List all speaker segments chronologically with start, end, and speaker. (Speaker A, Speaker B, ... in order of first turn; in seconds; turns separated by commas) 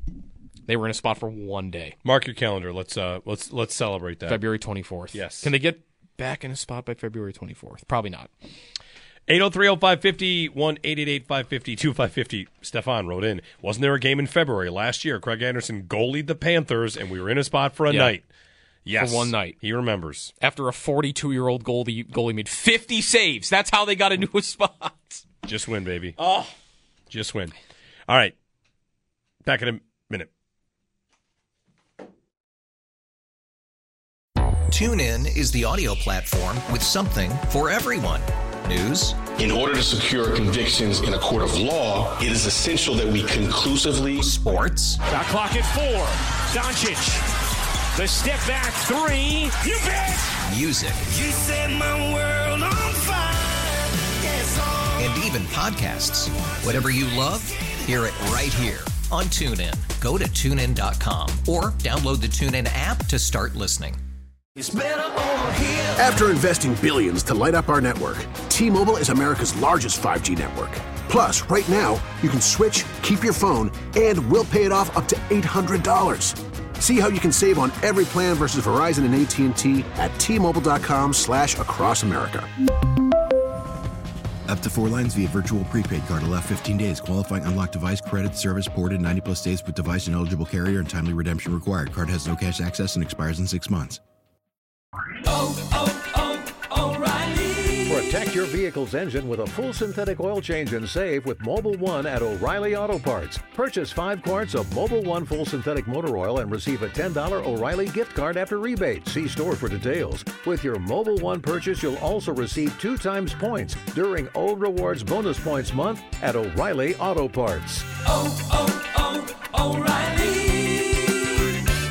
Speaker A: 0.7-1.9, Speaker B: 2.0-4.4, Speaker A: 4.3-8.3, Speaker B: 5.1-5.5, Speaker B: 9.3-18.2, Speaker A: 17.9-18.1, Speaker B: 18.8-20.3, Speaker A: 18.9-19.6, Speaker A: 20.4-25.2, Speaker B: 25.4-26.5, Speaker B: 27.1-27.5, Speaker B: 28.1-28.3, Speaker B: 29.4-30.3, Speaker C: 34.7-39.2, Speaker D: 39.4-44.2, Speaker C: 44.2-45.0, Speaker E: 45.0-47.2, Speaker E: 47.9-50.4, Speaker C: 50.5-51.1, Speaker F: 51.0-55.0, Speaker C: 55.0-64.0, Speaker F: 64.6-65.9, Speaker G: 65.9-82.5, Speaker H: 84.5-94.0, Speaker F: 95.3-97.9, Speaker I: 97.8-117.9, Speaker F: 118.2-121.0